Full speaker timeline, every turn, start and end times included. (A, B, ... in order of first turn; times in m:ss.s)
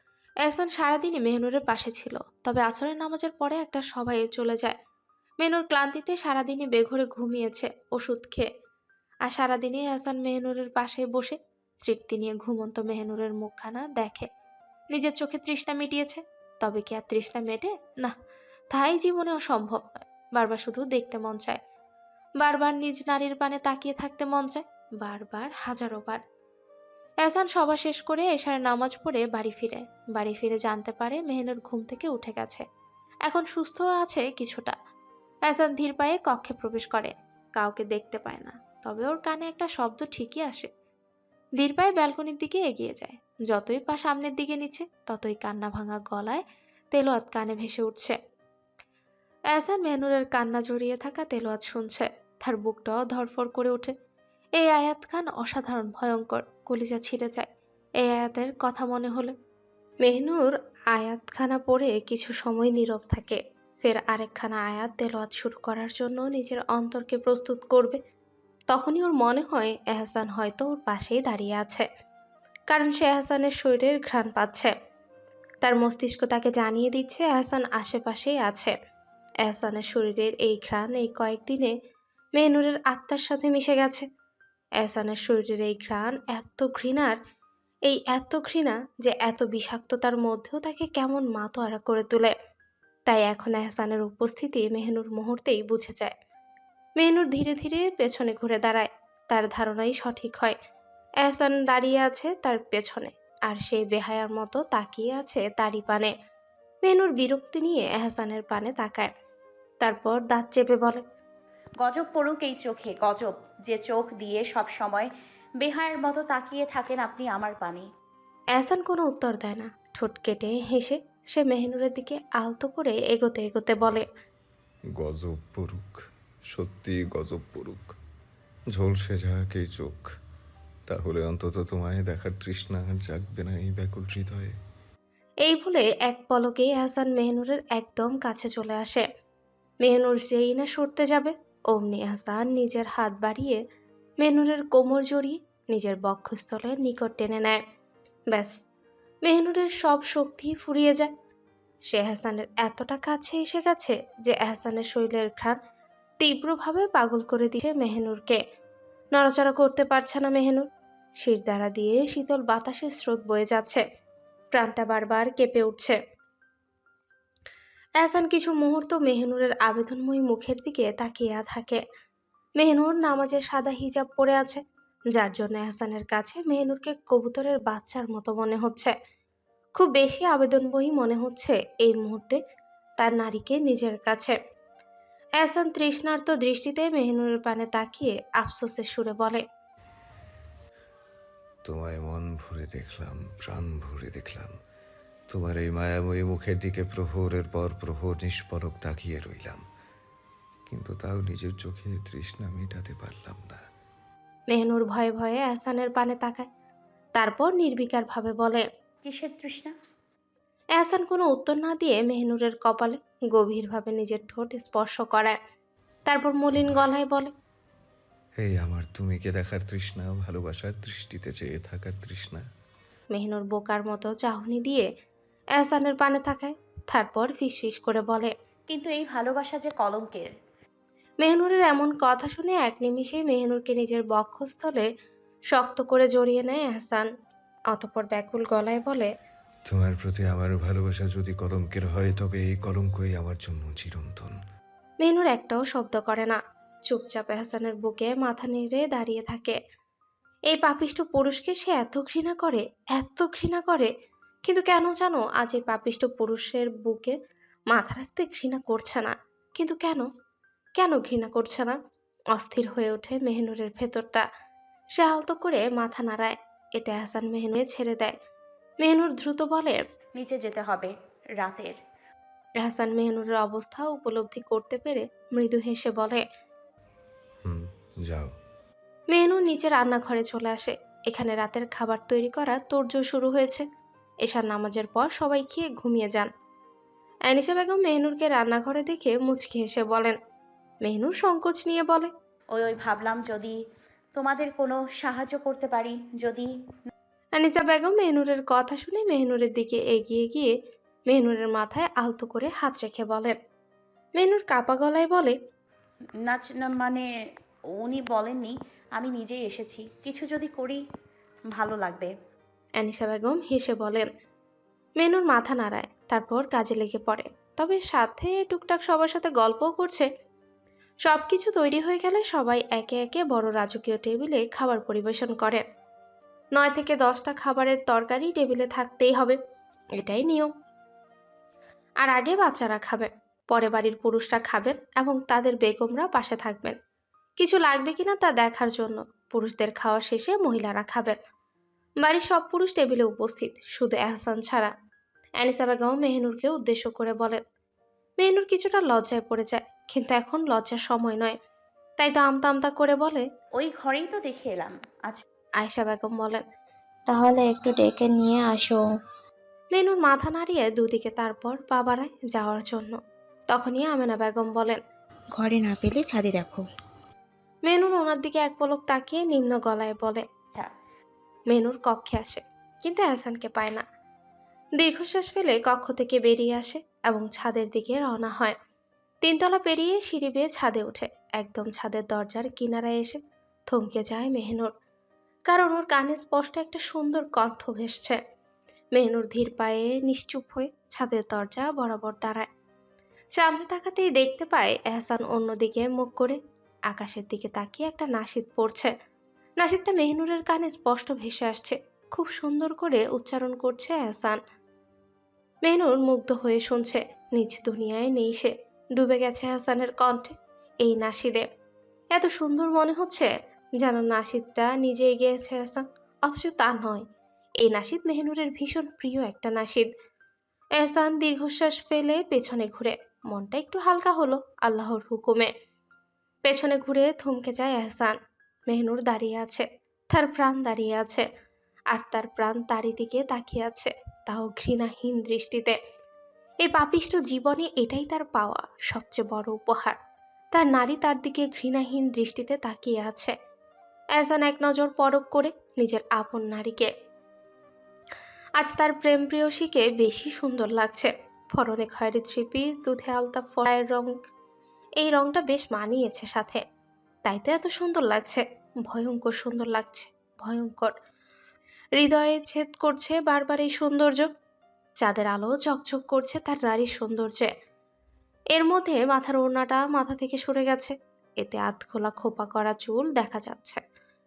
0:00.4-0:04.7 A
0:05.4-0:08.4 A
0:09.3-0:14.3 A
0:14.9-0:18.2 A
0:18.7-0:19.8 A
0:20.4-0:21.6 A
0:22.4-0:26.2 A
0:27.2-0:32.6 A
0:33.3-0:34.7 A
0:35.5-0:40.7 A
0:41.6-0:46.4 A
0:46.9-0:48.2 A
0:49.5-0:53.9 A
0:54.6-0:57.4 A
0:58.0-0:59.3 A
1:00.0-1:08.0 A
1:08.7-1:11.8 A
1:12.7-1:14.7 A
1:15.6-1:18.7 A
1:19.4-1:21.7 A
1:22.4-1:24.0 A
1:24.8-1:27.2 A
1:27.8-1:32.3 A
1:33.1-1:36.1 A
1:37.0-1:40.5 A
1:41.2-1:46.1 A
1:46.8-1:49.1 A
1:49.8-1:51.0 A
1:51.8-1:55.1 B
1:55.6-1:57.8 B
1:58.6-2:04.0 A
2:05.0-2:05.9 C
2:06.5-2:07.9 C
2:08.7-2:10.1 C
2:10.9-2:14.5 C
2:15.4-2:19.0 A
2:19.8-2:23.6 A
2:24.2-2:27.6 A
2:29.2-2:31.1 A
2:31.9-2:35.6 A
2:36.2-2:38.4 A
2:39.1-2:40.7 A
2:41.2-2:43.8 A
2:44.5-2:46.0 A
2:48.0-2:51.8 A
2:52.6-2:54.6 A
2:55.1-2:58.9 A
2:59.8-3:02.4 A
3:03.0-3:04.4 A
3:05.4-3:09.4 A
3:11.6-3:14.5 C
3:15.3-3:19.6 C
3:20.7-3:23.6 C
3:24.5-3:26.4 A
3:27.2-3:28.6 A
3:29.0-3:29.7 B
3:30.8-3:35.4 A
3:36.1-3:37.3 A
3:36.5-3:36.8 C
3:38.4-3:42.4 C
3:43.1-3:44.8 A
3:45.6-3:48.3 A
3:48.7-3:50.3 B
3:51.2-3:54.8 A
3:55.5-3:57.1 A
3:57.7-3:59.1 A
3:59.6-4:04.4 C
4:05.0-4:09.6 A
4:10.5-4:13.9 A
4:14.5-4:17.1 A
4:17.7-4:20.0 A
4:20.8-4:21.8 A
4:22.3-4:24.2 A
4:25.0-4:28.1 A
4:28.8-4:29.8 A
4:30.2-4:31.7 B
4:32.6-4:36.2 A
4:37.4-4:38.3 C
4:39.1-4:43.6 A
4:44.2-4:46.3 A
4:47.3-4:50.2 A
4:50.8-4:52.1 A
4:52.5-4:53.6 B
4:54.2-4:56.5 B
4:57.4-5:00.5 A
5:01.1-5:03.3 A
5:04.2-5:05.3 A
5:06.2-5:07.0 B
5:07.8-5:10.8 B
5:11.6-5:12.1 B
5:12.8-5:14.1 A
5:15.0-5:20.0 A
5:21.1-5:25.6 A
5:26.6-5:29.4 A
5:30.0-5:30.5 A
5:32.0-5:36.7 A
5:37.4-5:41.2 A
5:42.0-5:44.7 A
5:45.4-5:47.4 A
5:48.2-5:51.4 A
5:52.0-5:53.2 A
5:53.6-5:55.2 B
5:55.6-5:56.4 A
5:57.1-5:58.8 D
5:59.7-6:03.0 A
6:03.5-6:04.8 A
6:05.3-6:06.7 D
6:07.7-6:10.2 A
6:11.5-6:13.8 A
6:14.8-6:18.5 A
6:19.2-6:24.7 A
6:25.5-6:28.2 A
6:28.9-6:32.5 A
6:33.4-6:36.4 A
6:36.9-6:38.9 A
6:39.6-6:44.4 A
6:45.6-6:51.4 A
6:52.1-6:53.3 A
6:53.8-6:57.0 A
6:57.6-6:59.9 A
7:00.8-7:05.5 A
7:06.4-7:08.1 A
7:08.7-7:11.2 A
7:11.9-7:15.8 A
7:16.6-7:20.0 A
7:20.5-7:23.3 A
7:24.2-7:26.9 A
7:28.6-7:34.1 A
7:35.0-7:36.6 A
7:37.2-7:40.9 A
7:42.0-7:44.3 A
7:45.0-7:47.5 A
7:48.5-7:53.8 A